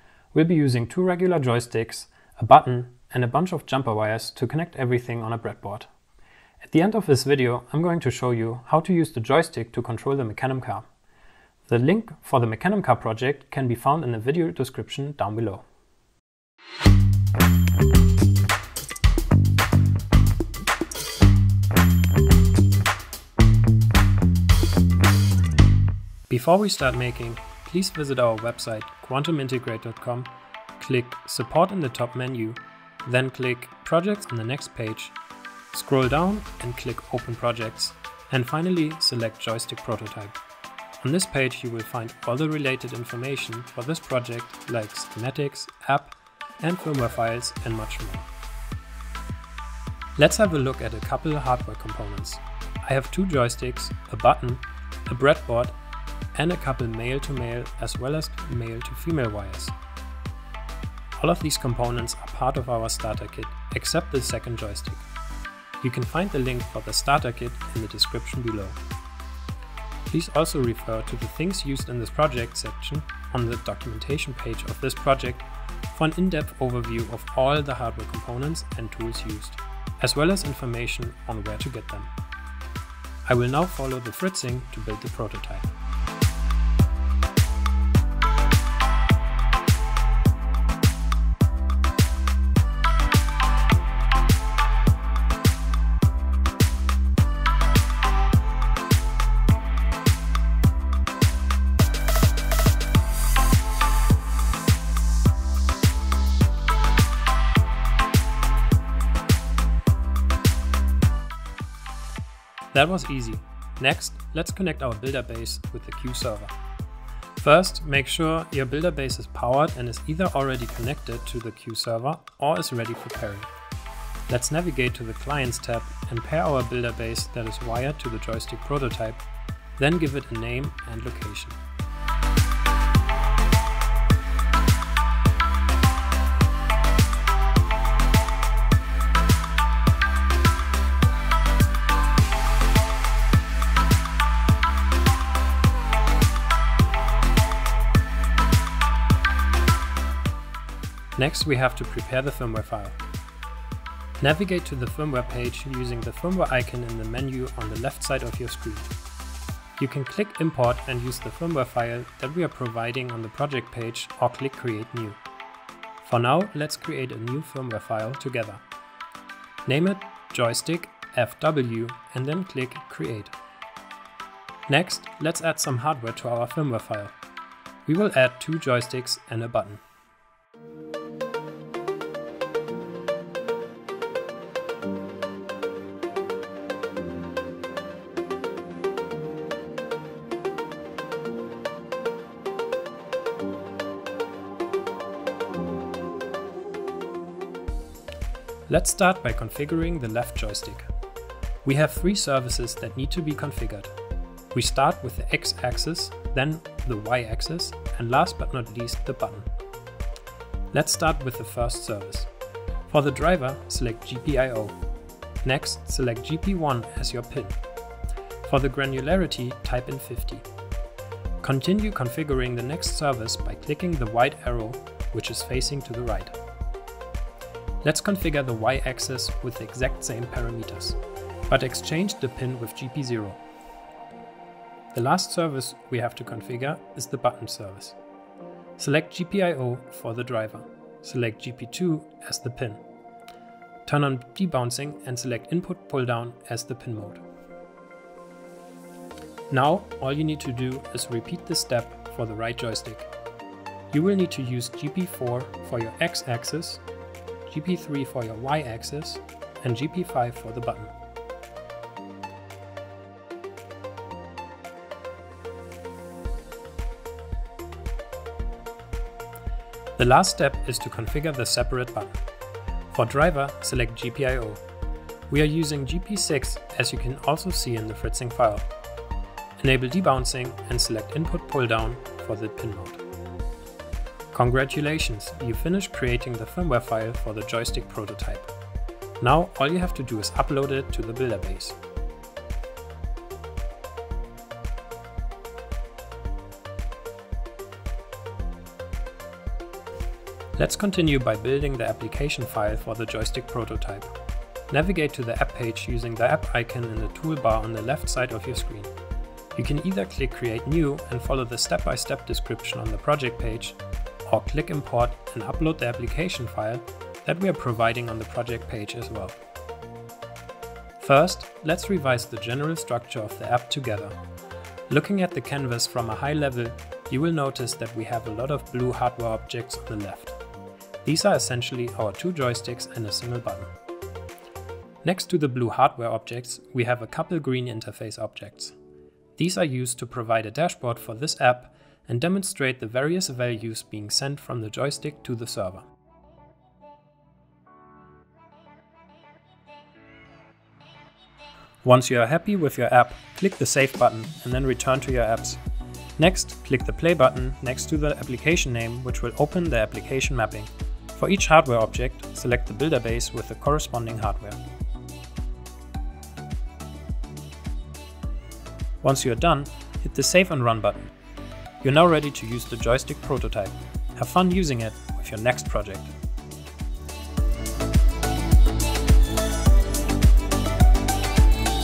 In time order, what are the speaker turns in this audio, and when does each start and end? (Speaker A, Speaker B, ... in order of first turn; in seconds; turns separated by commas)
Speaker A: 0.3-5.9, Speaker A: 6.6-10.9, Speaker A: 11.7-15.6, Speaker A: 26.3-35.1, Speaker A: 35.7-40.4, Speaker A: 41.0-48.3, Speaker A: 50.2-55.8, Speaker A: 56.4-59.8, Speaker A: 61.2-65.1, Speaker A: 65.8-68.8, Speaker A: 70.1-82.1, Speaker A: 83.3-85.7, Speaker A: 112.7-116.5, Speaker A: 117.4-123.5, Speaker A: 124.3-129.2, Speaker A: 129.8-131.6, Speaker A: 151.2-153.0, Speaker A: 154.2-158.9, Speaker A: 159.8-165.2, Speaker A: 166.0-168.6, Speaker A: 169.7-173.3, Speaker A: 174.7-177.2, Speaker A: 177.9-179.8, Speaker A: 198.7-200.9, Speaker A: 201.6-203.9, Speaker A: 204.5-209.5, Speaker A: 210.7-212.3, Speaker A: 212.9-214.8, Speaker A: 215.4-217.6, Speaker A: 218.4-220.5, Speaker A: 221.4-226.4, Speaker A: 227.8-233.4, Speaker A: 234.9-238.0, Speaker A: 238.8-242.8, Speaker A: 243.9-247.2, Speaker A: 249.5-253.1, Speaker A: 253.9-256.8, Speaker A: 257.5-260.9, Speaker A: 270.0-272.1, Speaker A: 272.9-274.6, Speaker A: 275.3-278.7, Speaker A: 279.6-283.0, Speaker A: 284.3-288.5, Speaker A: 289.2-291.8, Speaker A: 300.6-304.1, Speaker A: 304.7-308.9, Speaker A: 309.6-319.4, Speaker A: 321.0-324.1, Speaker A: 324.9-330.4, Speaker A: 331.0-333.7, Speaker A: 335.0-338.8, Speaker A: 339.4-345.9, Speaker A: 351.8-355.6, Speaker A: 356.2-364.6, Speaker A: 369.0-371.1, Speaker A: 371.8-376.1